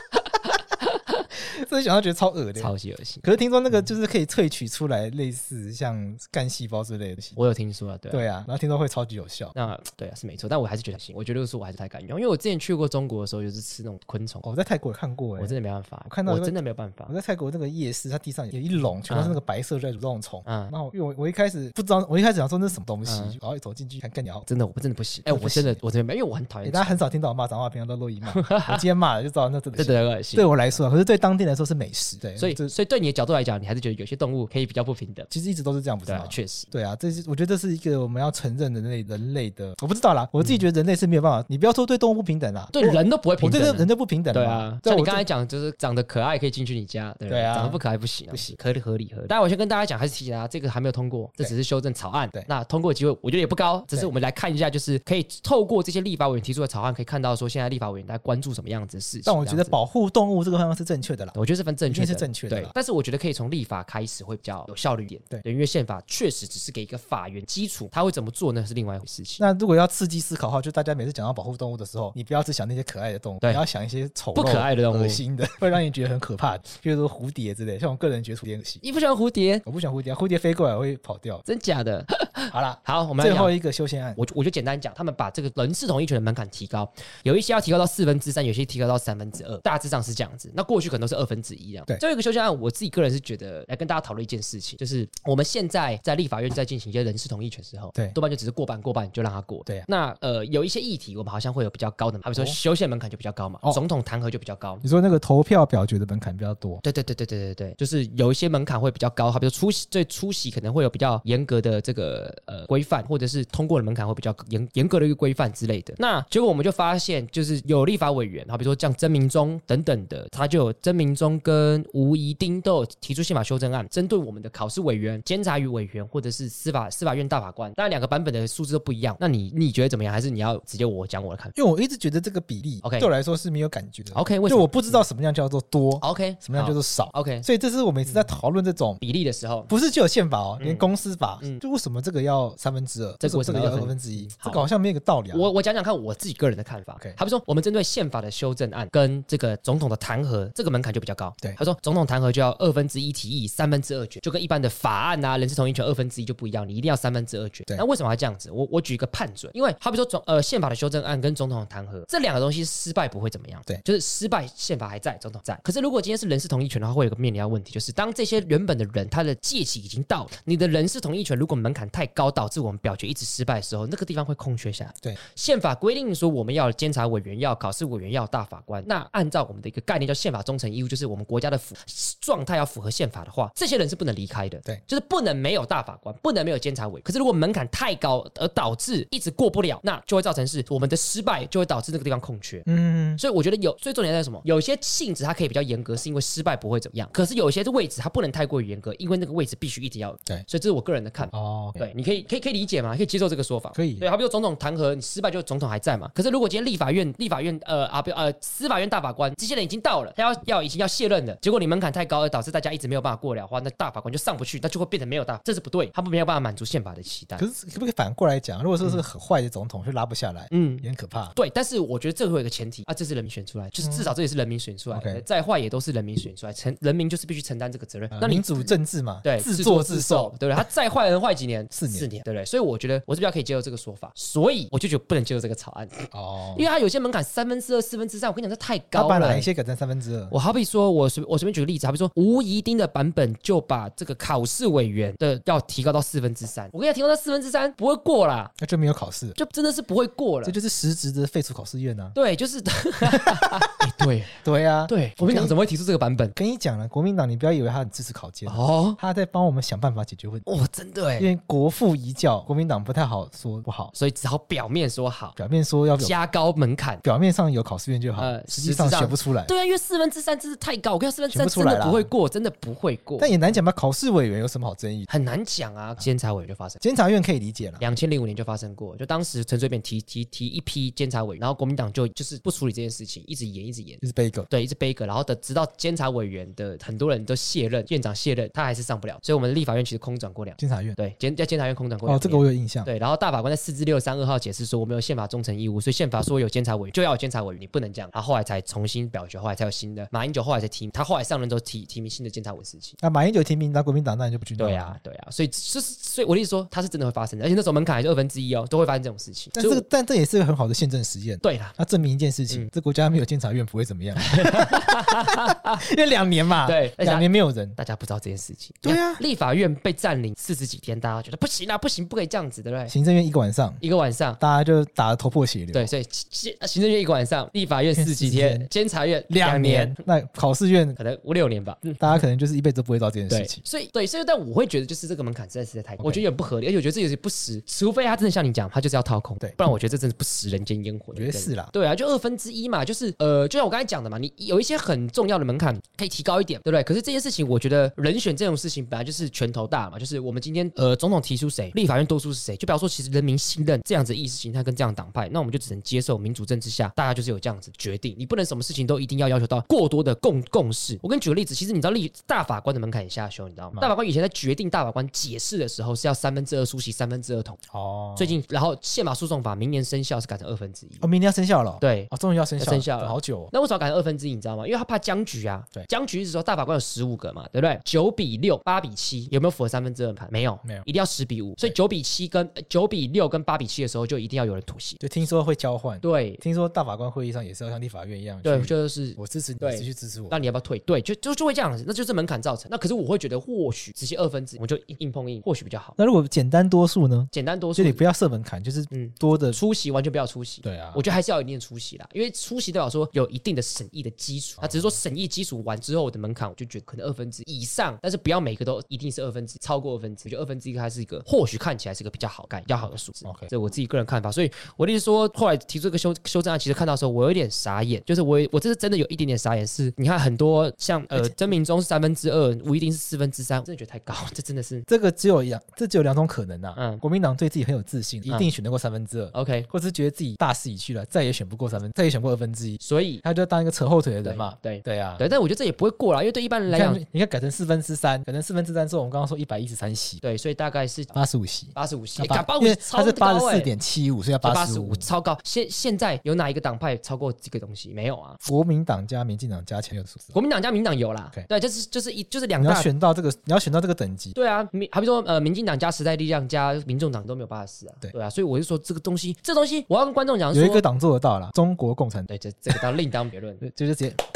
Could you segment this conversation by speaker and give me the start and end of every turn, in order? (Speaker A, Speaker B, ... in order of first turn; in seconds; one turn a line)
Speaker A: 0.4-1.2
Speaker B: 1.3-2.7
Speaker A: 2.6-3.9
Speaker B: 3.2-7.4
Speaker A: 7.3-8.2
Speaker B: 8.1-9.5
Speaker A: 9.5-14.5
Speaker B: 14.4-24.5
Speaker A: 15.4-17.1
Speaker A: 19.1-19.4
Speaker A: 20.4-20.7
Speaker A: 23.0-23.4
Speaker A: 24.5-27.0
Speaker B: 25.3-25.8
Speaker B: 26.6-32.7
Speaker A: 28.3-28.8
Speaker A: 29.8-30.5
Speaker A: 32.4-35.3
Speaker B: 35.3-45.2
Speaker A: 36.0-36.7
Speaker A: 42.7-59.8
Speaker B: 47.3-48.5
Speaker B: 59.2-61.4
Speaker A: 61.3-69.4
Speaker B: 61.9-62.7
Speaker B: 69.4-78.8
Speaker A: 74.3-75.2
Speaker A: 78.8-79.6
Speaker B: 79.7-81.4
Speaker A: 81.4-83.5
Speaker B: 82.5-84.2
Speaker A: 84.2-104.8
Speaker B: 104.8-106.8
Speaker A: 106.8-131.5
Speaker B: 131.5-139.0
Speaker A: 132.8-133.1
Speaker A: 134.1-135.1
Speaker A: 136.0-137.4
Speaker A: 139.0-139.7
Speaker B: 139.7-145.4
Speaker A: 140.6-140.8
Speaker A: 143.2-144.6
Speaker A: 145.3-192.7
Speaker B: 192.7-193.2
Speaker A: 193.2-217.4
Speaker B: 201.3-201.9
Speaker B: 203.7-204.1
Speaker B: 217.4-221.3
Speaker A: 220.5-239.5
Speaker B: 223.8-224.1
Speaker B: 224.9-225.2
Speaker B: 228.1-230.3
Speaker B: 231.7-232.1
Speaker B: 236.1-236.6
Speaker B: 238.9-240.3
Speaker A: 240.3-248.5
Speaker B: 248.6-249.4
Speaker A: 249.3-250.6
Speaker B: 250.4-252.2
Speaker A: 252.1-254.3
Speaker B: 253.2-253.7
Speaker B: 254.4-255.5
Speaker A: 254.9-256.3
Speaker B: 256.3-260.5
Speaker A: 258.4-259.0
Speaker A: 260.4-261.3
Speaker B: 261.2-263.9
Speaker A: 263.9-265.4
Speaker B: 265.4-266.1
Speaker A: 266.0-267.0
Speaker B: 267.0-269.5
Speaker A: 268.2-273.6
Speaker B: 271.3-272.1
Speaker B: 273.2-275.1
Speaker A: 275.1-276.8
Speaker B: 276.8-277.8
Speaker A: 277.8-303.0
Speaker B: 284.0-284.5
Speaker B: 290.6-291.0
Speaker B: 292.0-292.9
Speaker B: 303.0-305.0
Speaker A: 304.6-309.8
Speaker B: 309.5-317.8
Speaker A: 311.4-311.8
Speaker A: 314.2-315.8
Speaker A: 316.6-322.9
Speaker B: 318.8-319.2
Speaker B: 322.9-323.8
Speaker A: 323.8-324.4
Speaker B: 324.4-325.9
Speaker A: 325.7-330.0
Speaker B: 327.9-328.7
Speaker B: 329.3-331.0
Speaker A: 330.9-332.2
Speaker B: 332.0-333.6
Speaker A: 333.3-367.6
Speaker B: 336.0-336.2
Speaker B: 341.1-341.7
Speaker B: 367.7-368.4
Speaker A: 368.1-371.1
Speaker B: 371.0-373.5
Speaker A: 371.8-385.0
Speaker B: 385.0-390.4
Speaker A: 386.0-386.4
Speaker A: 388.4-396.0
Speaker B: 396.0-399.6
Speaker A: 397.3-398.0
Speaker A: 398.9-424.9
Speaker B: 400.6-401.0
Speaker B: 404.6-405.0
Speaker B: 413.2-413.5
Speaker B: 421.1-421.4
Speaker B: 424.9-435.2
Speaker A: 426.7-427.0
Speaker A: 429.3-429.7
Speaker A: 432.8-433.2
Speaker A: 434.2-437.0
Speaker B: 436.7-440.2
Speaker A: 440.2-441.1
Speaker B: 441.1-445.1
Speaker A: 441.7-443.7
Speaker A: 444.4-448.4
Speaker B: 448.4-450.3
Speaker A: 450.3-452.9
Speaker B: 452.6-454.3
Speaker A: 454.3-460.8
Speaker B: 460.5-462.8
Speaker A: 462.3-463.6
Speaker B: 463.6-464.2